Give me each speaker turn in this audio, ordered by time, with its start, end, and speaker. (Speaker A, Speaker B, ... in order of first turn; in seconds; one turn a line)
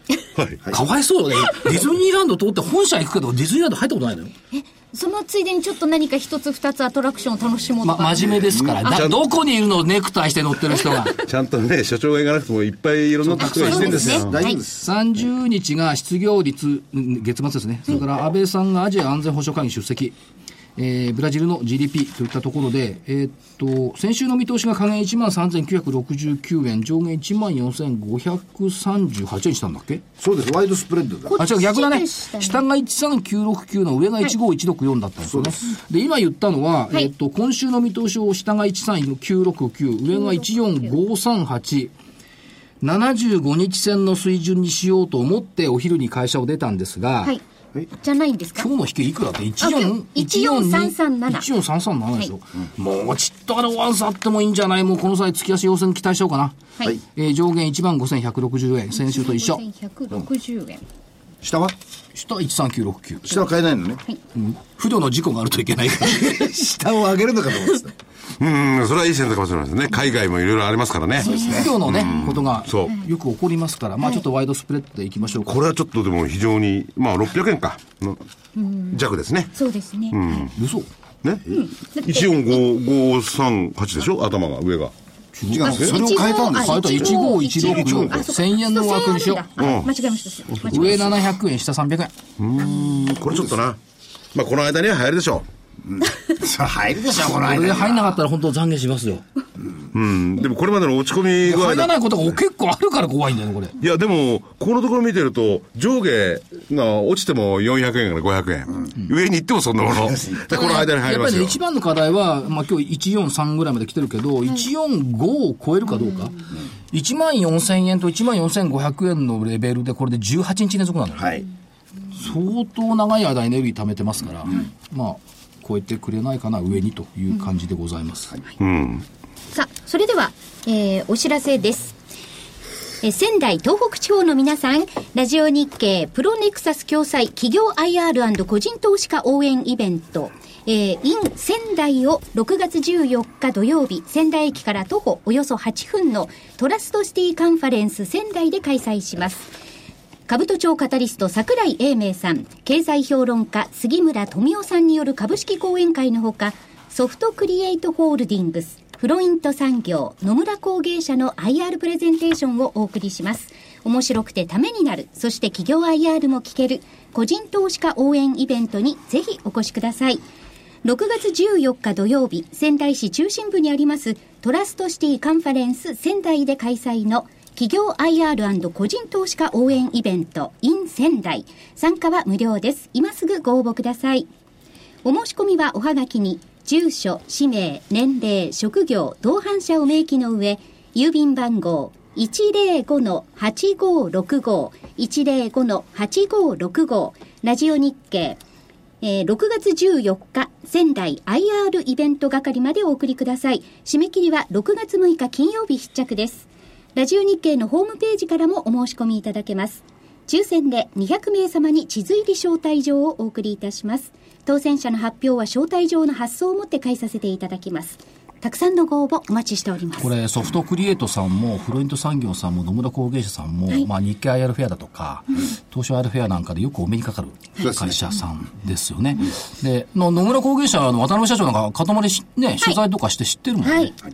Speaker A: 0.4-0.6
Speaker B: 0.7-4.3
Speaker C: 4.6-6.0
Speaker D: 5.0-8.5
Speaker B: 7.8-11.2
Speaker E: 8.5-8.8
Speaker A: 8.8-9.2
Speaker A: 11.1-14.4
Speaker B: 13.2-14.3
Speaker C: 13.4-14.6
Speaker E: 13.6-14.9
Speaker B: 14.8-20.2
Speaker B: 20.8-30.0
Speaker E: 30.2-31.4
Speaker C: 31.3-32.4
Speaker B: 31.4-41.9
Speaker D: 32.0-32.5
Speaker E: 35.3-35.6
Speaker B: 42.8-47.4
Speaker C: 47.9-48.7
Speaker B: 48.6-56.6
Speaker C: 49.6-51.5
Speaker B: 57.1-59.6
Speaker D: 59.1-60.8
Speaker E: 61.4-61.7
Speaker B: 62.1-63.3
Speaker E: 63.3-64.0
Speaker B: 64.3-66.5
Speaker E: 66.1-67.9
Speaker A: 68.4-73.0
Speaker E: 71.2-71.7
Speaker B: 71.3-75.6
Speaker A: 75.5-78.2
Speaker A: 78.9-79.5
Speaker D: 79.6-80.4
Speaker A: 80.1-80.5
Speaker B: 80.5-80.9
Speaker A: 81.2-84.9
Speaker B: 85.3-86.0
Speaker E: 85.5-87.3
Speaker D: 85.7-88.2
Speaker C: 86.1-89.9
Speaker B: 86.5-89.5
Speaker A: 88.0-88.2
Speaker A: 89.6-89.9
Speaker D: 89.6-91.1
Speaker A: 90.5-90.8
Speaker B: 90.6-92.1
Speaker A: 92.4-93.8
Speaker A: 94.3-95.5
Speaker E: 95.9-98.0
Speaker B: 97.4-99.2
Speaker A: 99.9-101.9
Speaker B: 101.4-103.7
Speaker A: 103.8-111.6
Speaker E: 110.0-110.4
Speaker B: 110.5-121.4
Speaker E: 121.2-121.5
Speaker B: 122.1-128.4
Speaker A: 128.6-129.0
Speaker C: 129.5-131.9
Speaker C: 133.0-149.5
Speaker C: 150.3-170.2
Speaker C: 170.8-184.3
Speaker C: 185.0-198.4
Speaker C: 199.0-220.1
Speaker B: 220.0-233.9
Speaker E: 227.6-228.0
Speaker C: 233.6-233.9